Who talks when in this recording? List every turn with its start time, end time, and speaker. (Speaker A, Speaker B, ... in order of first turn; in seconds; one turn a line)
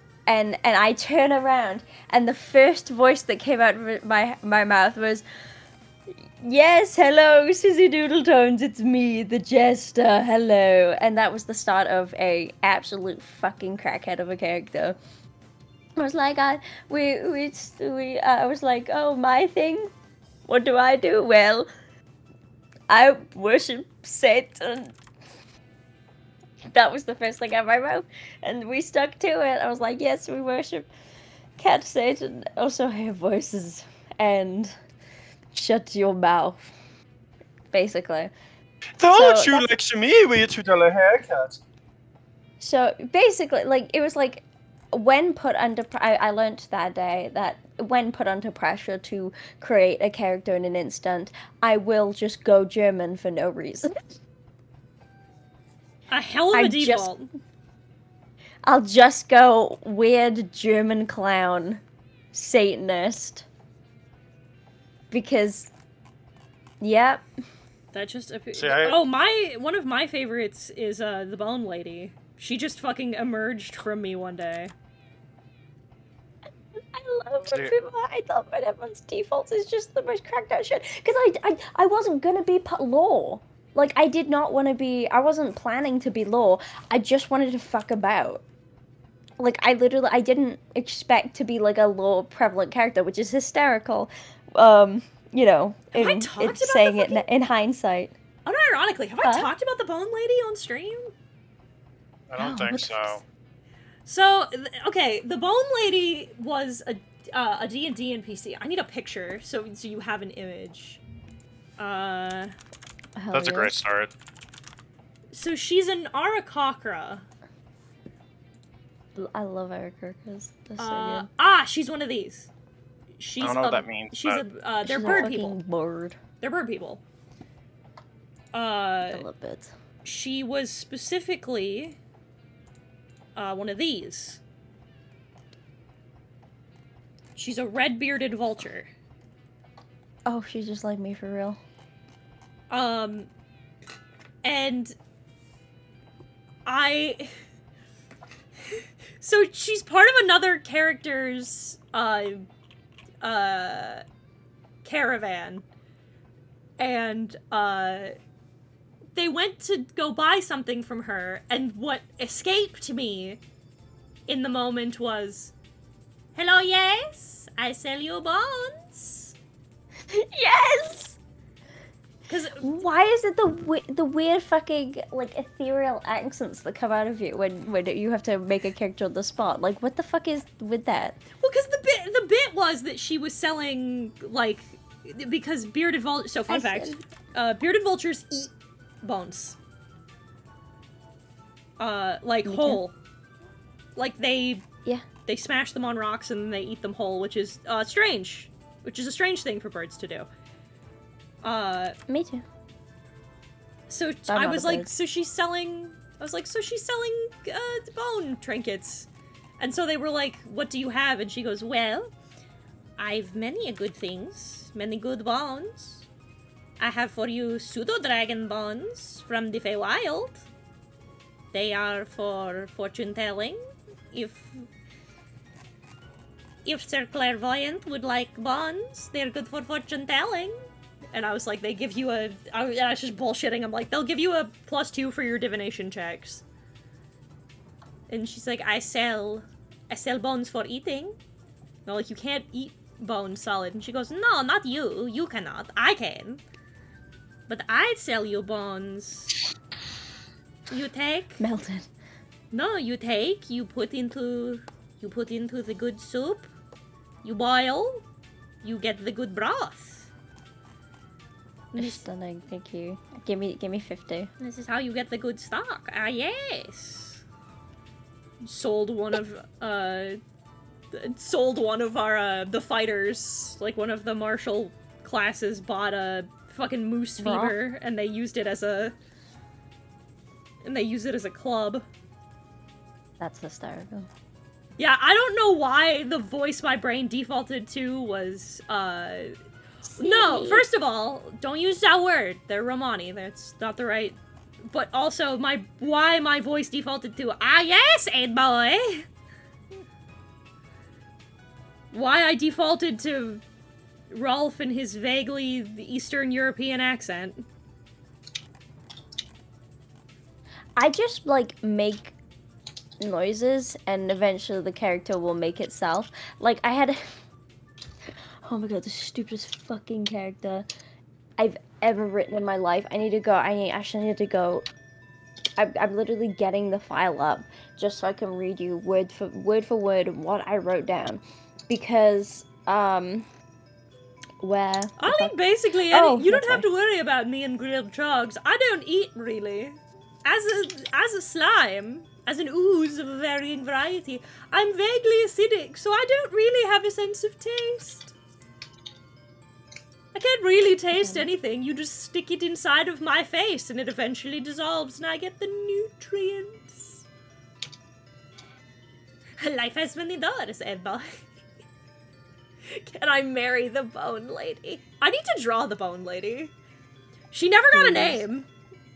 Speaker A: 0.3-5.2
Speaker A: 6.4-15.0
Speaker A: 15.9-19.9
Speaker A: 20.4-21.7
Speaker A: 22.9-25.0
Speaker A: 26.7-30.9
Speaker A: 31.6-34.8
Speaker A: 35.5-36.7
Speaker A: 37.7-38.3
Speaker B: 39.0-41.6
Speaker A: 39.1-39.7
Speaker A: 42.6-53.9
Speaker C: 56.1-57.3
Speaker A: 56.5-57.1
Speaker A: 58.6-61.8
Speaker A: 62.3-63.5
Speaker A: 65.1-65.7
Speaker A: 66.8-67.2
Speaker C: 67.9-74.7
Speaker B: 68.6-69.0
Speaker A: 76.9-88.4
Speaker B: 77.5-77.7
Speaker A: 89.4-98.1
Speaker C: 95.9-97.2
Speaker C: 98.4-101.1
Speaker A: 99.2-99.5
Speaker B: 102.3-103.2
Speaker A: 102.4-103.2
Speaker C: 104.0-111.0
Speaker C: 111.8-112.5
Speaker A: 113.2-113.7
Speaker B: 113.3-114.1
Speaker C: 115.3-117.2
Speaker A: 119.1-121.3
Speaker C: 120.8-122.5
Speaker C: 123.2-125.6
Speaker B: 123.4-124.5
Speaker A: 124.8-126.2
Speaker C: 126.4-127.0
Speaker C: 128.5-129.2
Speaker A: 129.1-129.7
Speaker C: 130.0-132.0
Speaker C: 133.3-134.4
Speaker C: 137.3-138.9
Speaker A: 140.2-141.6
Speaker C: 142.7-143.3
Speaker C: 144.4-144.9
Speaker C: 146.7-147.3
Speaker C: 148.7-152.4
Speaker C: 153.2-154.0
Speaker C: 154.8-155.6
Speaker C: 156.8-158.1
Speaker C: 159.1-163.4
Speaker C: 164.3-165.5
Speaker C: 166.3-169.3
Speaker A: 170.1-171.2
Speaker C: 172.3-172.7
Speaker A: 172.6-181.2
Speaker C: 181.4-189.6
Speaker A: 186.5-187.0
Speaker C: 191.8-192.9
Speaker A: 192.4-192.8
Speaker C: 193.9-194.6
Speaker C: 195.2-200.3
Speaker C: 201.4-201.9
Speaker A: 202.1-202.4
Speaker C: 203.9-212.1
Speaker A: 204.3-204.9
Speaker C: 213.0-216.1
Speaker C: 216.8-220.4
Speaker C: 221.5-223.6
Speaker C: 224.1-224.7
Speaker C: 226.6-230.5
Speaker C: 231.1-236.4
Speaker C: 238.1-241.2
Speaker C: 241.8-246.4
Speaker C: 247.5-249.3
Speaker C: 250.7-251.4
Speaker A: 251.4-251.9
Speaker C: 252.5-256.5
Speaker C: 257.2-258.0
Speaker C: 258.6-260.1
Speaker C: 261.7-262.0
Speaker A: 261.7-264.3
Speaker C: 264.4-267.2
Speaker C: 268.4-270.2
Speaker C: 270.9-278.9
Speaker A: 277.2-277.6
Speaker C: 280.6-281.8
Speaker A: 283.2-284.1
Speaker C: 284.8-289.3
Speaker A: 289.9-290.6
Speaker C: 290.0-299.1
Speaker C: 301.9-303.4
Speaker C: 304.1-307.4
Speaker A: 310.8-312.1
Speaker A: 313.0-317.1
Speaker A: 318.4-320.6
Speaker A: 321.4-324.7
Speaker A: 325.6-333.3
Speaker A: 334.4-335.3
Speaker C: 335.0-348.1
Speaker A: 335.9-336.6
Speaker C: 350.1-357.0
Speaker A: 350.9-351.3
Speaker C: 359.4-361.3
Speaker C: 362.6-366.5
Speaker C: 367.3-368.5
Speaker A: 367.7-368.2